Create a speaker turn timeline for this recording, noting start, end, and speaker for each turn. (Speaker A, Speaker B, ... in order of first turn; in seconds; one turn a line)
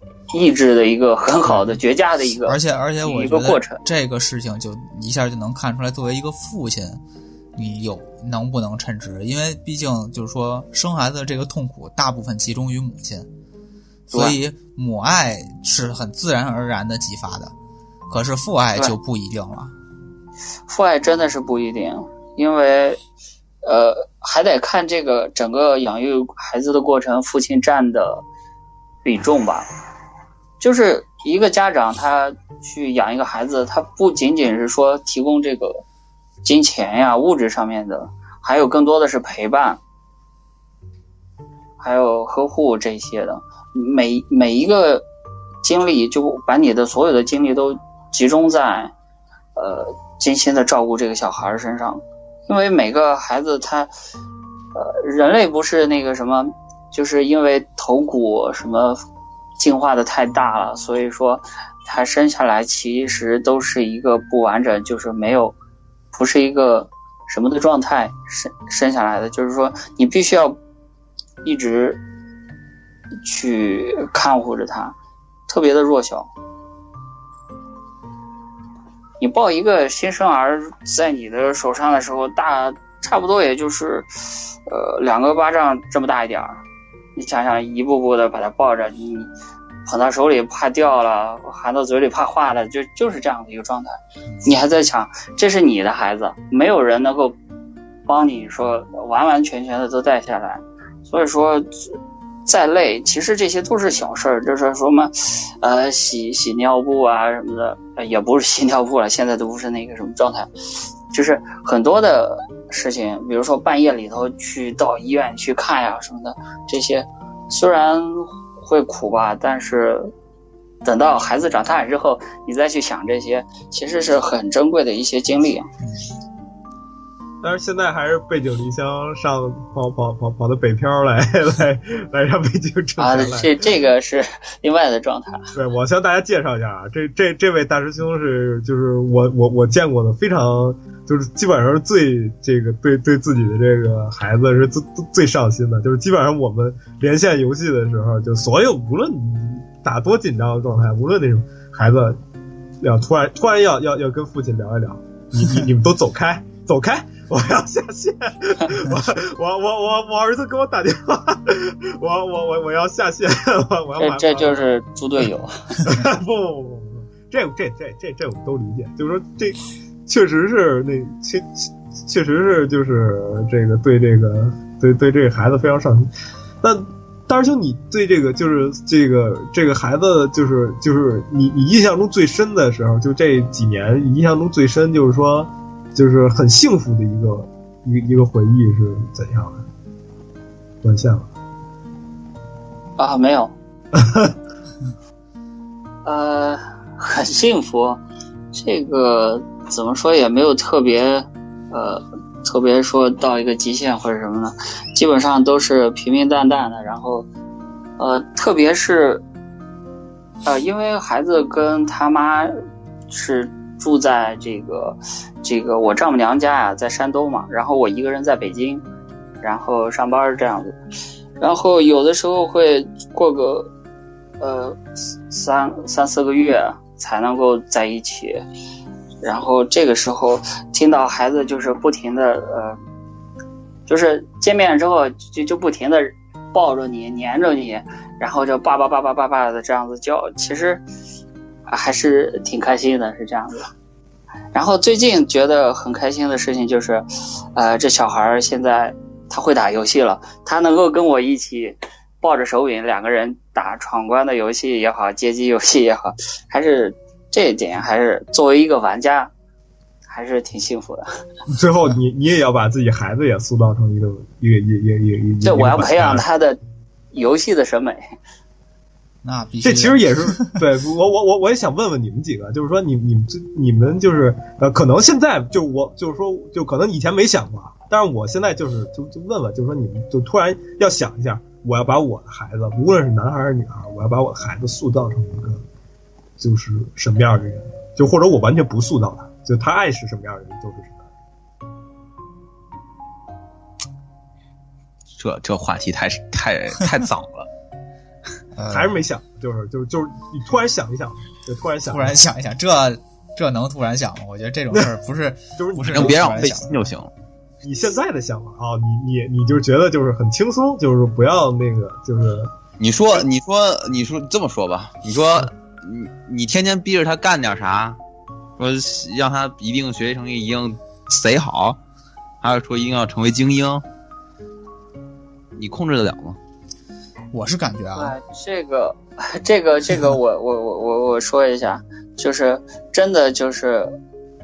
Speaker A: 0.3-3.8
Speaker B: 1.4-1.8
Speaker B: 2.5-7.0
Speaker B: 7.5-13.3
Speaker A: 14.1-14.4
Speaker B: 14.1-17.5
Speaker B: 18.1-19.8
Speaker A: 20.7-23.0
Speaker A: 23.6-28.2
Speaker A: 29.0-29.7
Speaker A: 30.6-35.8
Speaker A: 36.4-39.8
Speaker A: 41.8-45.0
Speaker A: 45.6-48.9
Speaker A: 49.6-53.9
Speaker A: 54.8-59.0
Speaker A: 59.6-65.5
Speaker A: 66.1-70.6
Speaker A: 71.4-72.0
Speaker A: 73.2-75.0
Speaker A: 75.5-76.3
Speaker A: 79.2-86.6
Speaker A: 87.2-89.3
Speaker A: 89.9-97.4
Speaker A: 98.1-110.5
Speaker A: 111.1-120.1
Speaker A: 120.8-125.7
Speaker B: 125.8-126.1
Speaker C: 127.4-133.5
Speaker A: 133.0-135.5
Speaker C: 135.5-152.2
Speaker C: 152.8-164.7
Speaker A: 164.0-165.8
Speaker C: 165.8-176.1
Speaker C: 176.6-189.7
Speaker C: 190.8-191.3
Speaker A: 193.0-193.5
Speaker C: 193.9-194.3
Speaker A: 196.1-198.0
Speaker A: 198.5-207.3
Speaker A: 208.0-209.2
Speaker A: 210.4-212.6
Speaker A: 213.1-218.8
Speaker A: 219.4-220.8
Speaker A: 221.4-223.7
Speaker A: 224.4-228.4
Speaker A: 229.2-232.8
Speaker A: 233.9-240.8
Speaker A: 241.7-243.7
Speaker A: 244.5-259.3
Speaker A: 260.1-261.1
Speaker C: 261.5-266.2
Speaker A: 265.4-266.6
Speaker A: 267.1-268.0
Speaker B: 269.2-270.5
Speaker C: 269.6-285.6
Speaker C: 286.4-291.0
Speaker D: 295.1-297.5
Speaker B: 298.6-299.0
Speaker C: 298.7-302.2
Speaker B: 301.9-306.7
Speaker C: 305.6-306.5
Speaker D: 305.9-307.1
Speaker C: 307.6-312.5
Speaker D: 312.8-318.0
Speaker D: 318.6-321.8
Speaker D: 322.4-323.8
Speaker D: 325.6-326.4
Speaker B: 327.3-328.1
Speaker A: 328.0-333.9